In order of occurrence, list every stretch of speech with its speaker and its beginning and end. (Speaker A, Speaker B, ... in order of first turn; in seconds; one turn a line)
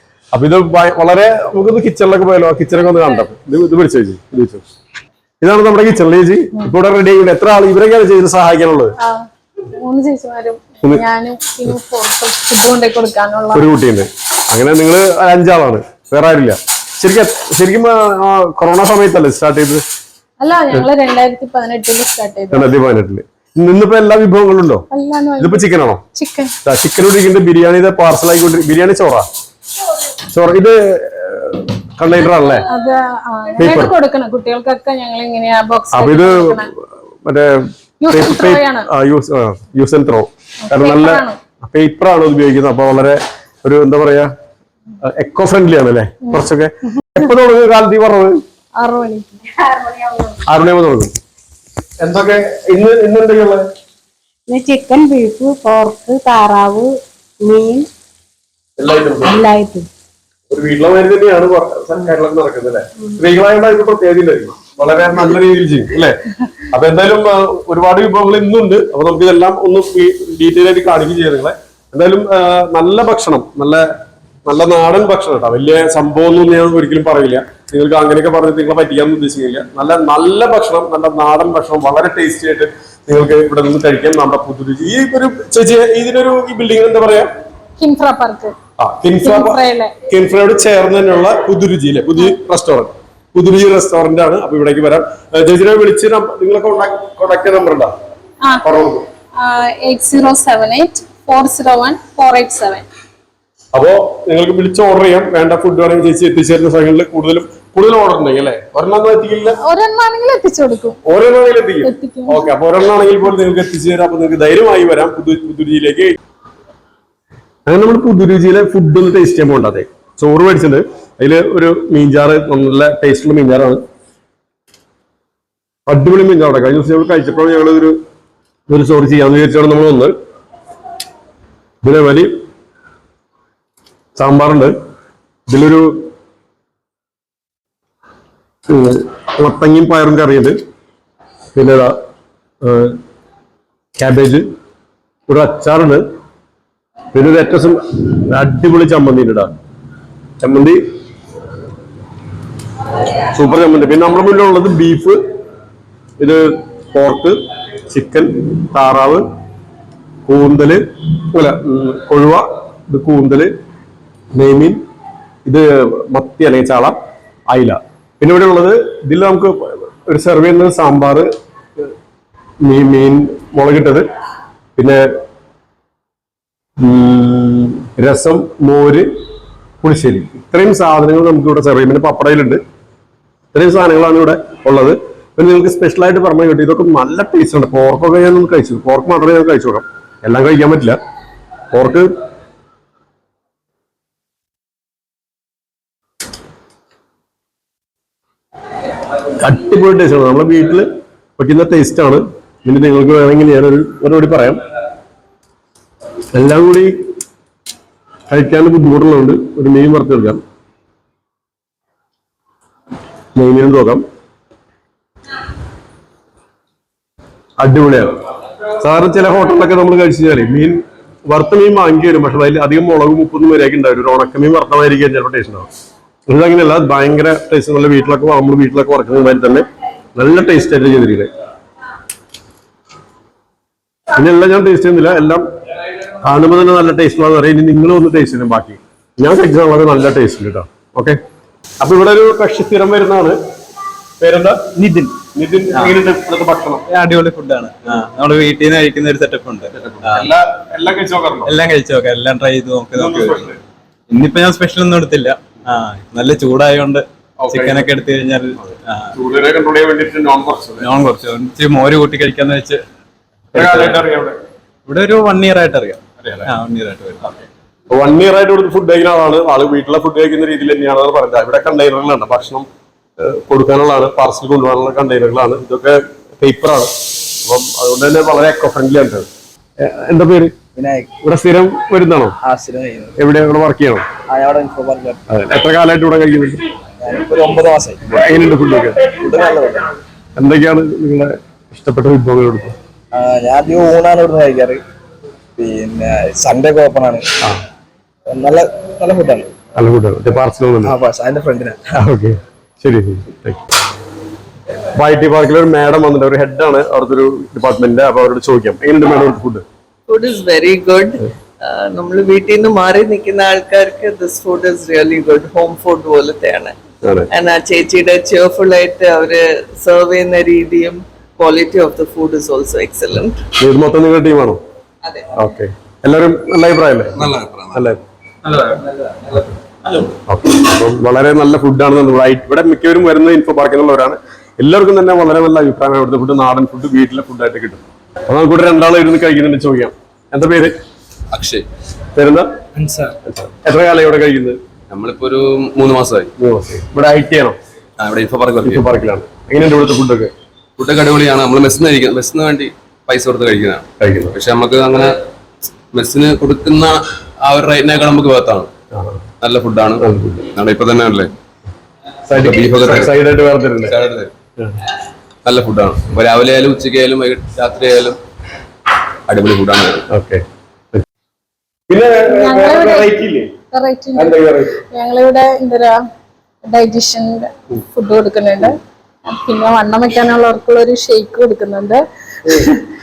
Speaker A: 0.3-4.6
Speaker A: 5.4-8.9
Speaker B: 9.0-13.6
Speaker A: 13.5-19.8
Speaker B: 20.4-22.7
Speaker A: 22.5-24.8
Speaker B: 24.9-26.5
Speaker A: 25.4-26.0
Speaker A: 26.6-29.2
Speaker A: 30.3-32.7
Speaker B: 32.7-36.7
Speaker A: 33.6-33.9
Speaker A: 35.9-36.7
Speaker A: 37.2-44.3
Speaker B: 38.0-38.9
Speaker B: 40.7-41.4
Speaker A: 45.0-48.4
Speaker B: 48.8-49.6
Speaker A: 50.4-51.1
Speaker A: 52.0-53.6
Speaker C: 54.5-57.9
Speaker A: 58.8-59.4
Speaker C: 59.2-59.9
Speaker A: 60.5-66.2
Speaker A: 66.7-73.9
Speaker A: 74.5-87.3
Speaker B: 87.8-88.5
Speaker A: 88.8-97.9
Speaker B: 89.2-89.9
Speaker A: 98.6-99.0
Speaker B: 99.4-102.8
Speaker A: 103.7-109.6
Speaker B: 109.6-111.0
Speaker A: 111.1-116.2
Speaker B: 111.8-112.4
Speaker A: 117.7-123.8
Speaker A: 125.9-128.0
Speaker A: 128.7-130.1
Speaker A: 131.8-132.3
Speaker A: 134.2-134.7
Speaker A: 135.5-135.9
Speaker A: 138.7-140.6
Speaker A: 141.6-141.9
Speaker A: 142.6-143.0
Speaker A: 144.0-144.4
Speaker A: 145.3-146.0
Speaker A: 147.1-149.5
Speaker A: 150.4-150.8
Speaker A: 153.3-155.2
Speaker A: 156.2-157.4
Speaker A: 157.9-159.2
Speaker A: 160.2-163.5
Speaker A: 164.3-164.8
Speaker A: 165.5-167.0
Speaker A: 167.5-171.3
Speaker A: 172.6-174.1
Speaker A: 174.8-175.0
Speaker A: 176.8-179.1
Speaker A: 179.8-182.6
Speaker A: 183.5-191.0
Speaker A: 191.7-192.1
Speaker A: 199.4-200.9
Speaker A: 201.4-204.6
Speaker A: 206.3-206.9
Speaker A: 208.3-210.4
Speaker A: 213.4-214.0
Speaker A: 217.6-218.1
Speaker A: 218.8-225.7
Speaker A: 226.3-231.3
Speaker A: 234.1-235.4
Speaker A: 236.2-241.2
Speaker A: 241.8-243.4
Speaker A: 244.2-246.8
Speaker D: 244.8-245.1
Speaker D: 246.9-250.3
Speaker A: 249.8-251.5
Speaker D: 251.5-253.5
Speaker A: 252.9-253.6
Speaker D: 254.1-259.1
Speaker A: 257.4-257.9
Speaker A: 258.6-260.9
Speaker D: 260.8-262.8
Speaker A: 263.5-264.4
Speaker D: 263.5-264.0
Speaker D: 264.9-267.5
Speaker A: 267.9-272.6
Speaker A: 273.2-279.2
Speaker A: 279.8-280.5
Speaker E: 280.8-281.1
Speaker A: 281.2-282.4
Speaker E: 282.4-283.1
Speaker A: 283.2-284.0
Speaker E: 284.3-285.2
Speaker A: 285.3-286.6
Speaker E: 287.0-288.0
Speaker A: 288.1-289.1
Speaker E: 289.0-289.9
Speaker A: 290.4-292.8
Speaker E: 293.1-294.8
Speaker E: 295.6-297.2
Speaker E: 298.3-299.6
Speaker A: 299.8-300.9
Speaker E: 300.8-302.0
Speaker A: 302.0-303.6
Speaker A: 304.9-309.6
Speaker F: 310.1-316.8
Speaker F: 317.3-323.4
Speaker A: 323.6-324.6
Speaker A: 325.4-327.1
Speaker G: 327.2-327.9
Speaker A: 327.7-328.0
Speaker A: 330.3-340.7
Speaker G: 341.3-341.6
Speaker A: 342.1-342.5
Speaker D: 342.8-343.1
Speaker A: 343.2-344.6
Speaker G: 344.9-346.3
Speaker A: 346.4-347.6
Speaker G: 348.0-348.8
Speaker A: 348.6-350.3
Speaker G: 350.8-355.1
Speaker A: 354.0-354.3
Speaker G: 355.9-356.9
Speaker G: 357.4-358.7
Speaker A: 358.9-359.2
Speaker G: 359.4-361.3
Speaker A: 360.0-360.4
Speaker A: 362.3-364.0
Speaker G: 362.4-363.1
Speaker G: 363.8-364.3
Speaker G: 365.5-368.2
Speaker G: 369.3-370.1
Speaker A: 370.1-371.0
Speaker A: 371.9-373.5
Speaker B: 372.3-373.1
Speaker B: 373.7-374.4
Speaker A: 374.1-374.8
Speaker B: 374.9-375.9
Speaker B: 376.7-382.8